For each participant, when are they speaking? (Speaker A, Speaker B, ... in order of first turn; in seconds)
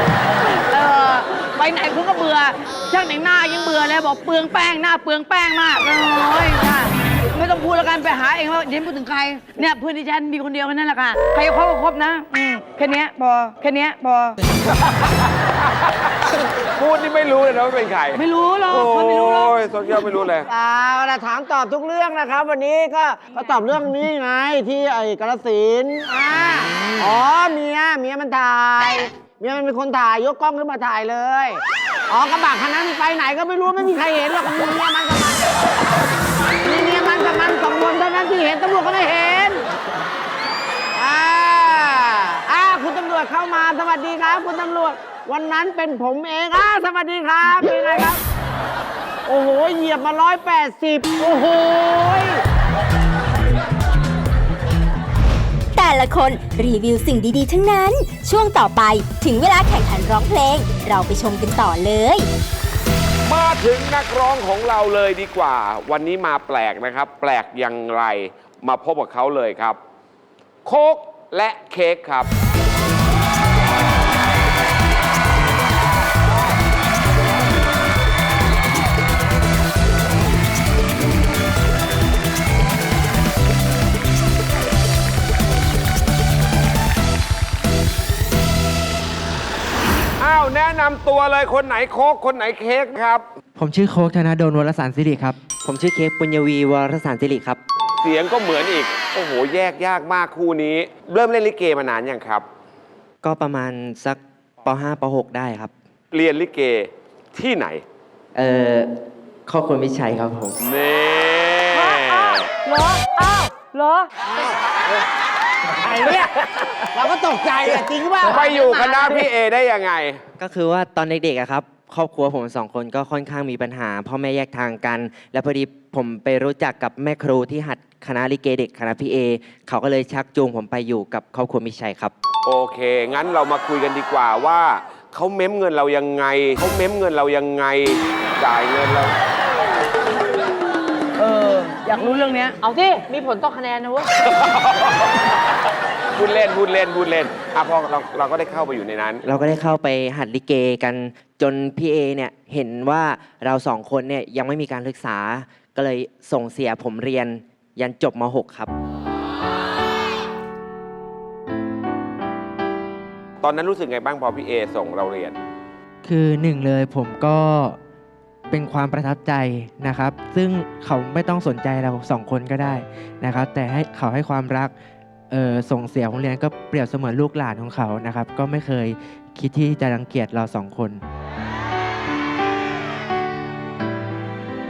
Speaker A: 0.4-14.4, 18.1-19.5, 141.2-142.6
Speaker B: 16.8-20.5, 63.2-69.8, 70.6-72.3, 90.2-93.2, 98.0-102.4, 106.1-107.8, 110.6-112.5, 118.2-120.2, 132.4-139.1, 144.1-145.3, 146.2-149.2, 163.4-165.4
Speaker C: 20.5-35.5, 36.6-39.6, 41.0-48.2, 49.3-52.4, 115.8-116.2, 116.9-119.2
Speaker D: 55.8-62.3
Speaker E: 93.5-97.6, 103.2-105.7, 108.3-108.9, 109.5-110.6, 120.4-132.1, 149.2-158.7, 166.0-167.8, 168.5-174.7, 175.3-181.0
Speaker F: 111.7-114.1, 142.6-144.1